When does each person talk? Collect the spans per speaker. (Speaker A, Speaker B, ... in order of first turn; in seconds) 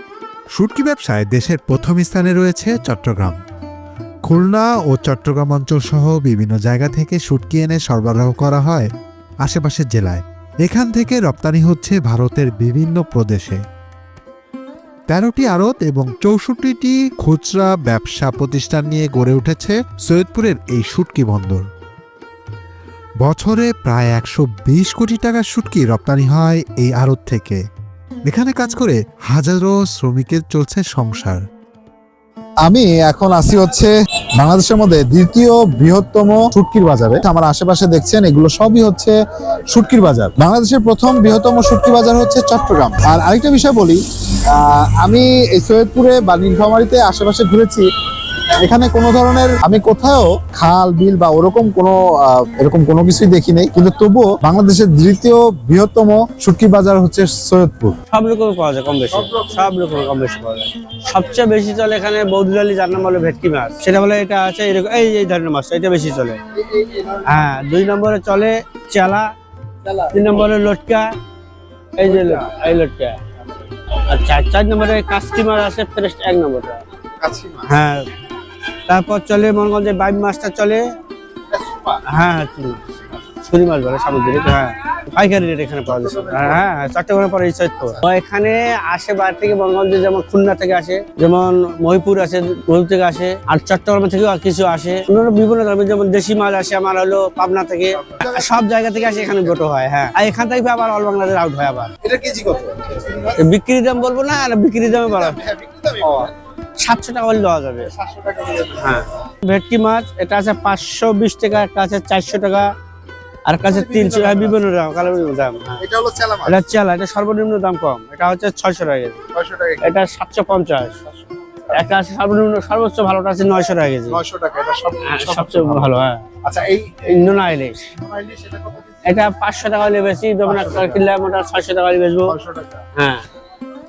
Speaker A: 0.6-3.4, 4.3-8.9, 9.4-13.6, 15.1-21.6, 23.2-27.6, 28.3-31.4
Speaker B: 32.6-39.1, 39.7-44.0, 44.5-47.9, 48.6-58.0, 66.7-67.3, 69.9-70.2, 77.2-77.7, 81.6-82.0, 85.9-86.7, 98.1-98.5, 102.0-103.3, 105.2-106.3, 107.9-108.9, 113.7-114.6, 115.8-116.6, 119.3-120.0, 124.1-125.9, 126.4-127.1, 128.0-129.0, 130.5-131.0, 132.3-132.8
Speaker C: 58.1-66.4, 67.2-69.3, 70.1-71.1, 72.0-73.2, 74.1-76.8, 77.7-78.1, 78.9-80.8, 82.1-101.9, 103.4-105.4, 106.0-107.9, 108.8-112.7, 113.5-115.8, 116.5-119.2, 119.8-121.0, 121.7-124.2, 125.0-126.3, 127.0-127.8, 129.1-132.4, 133.0-133.2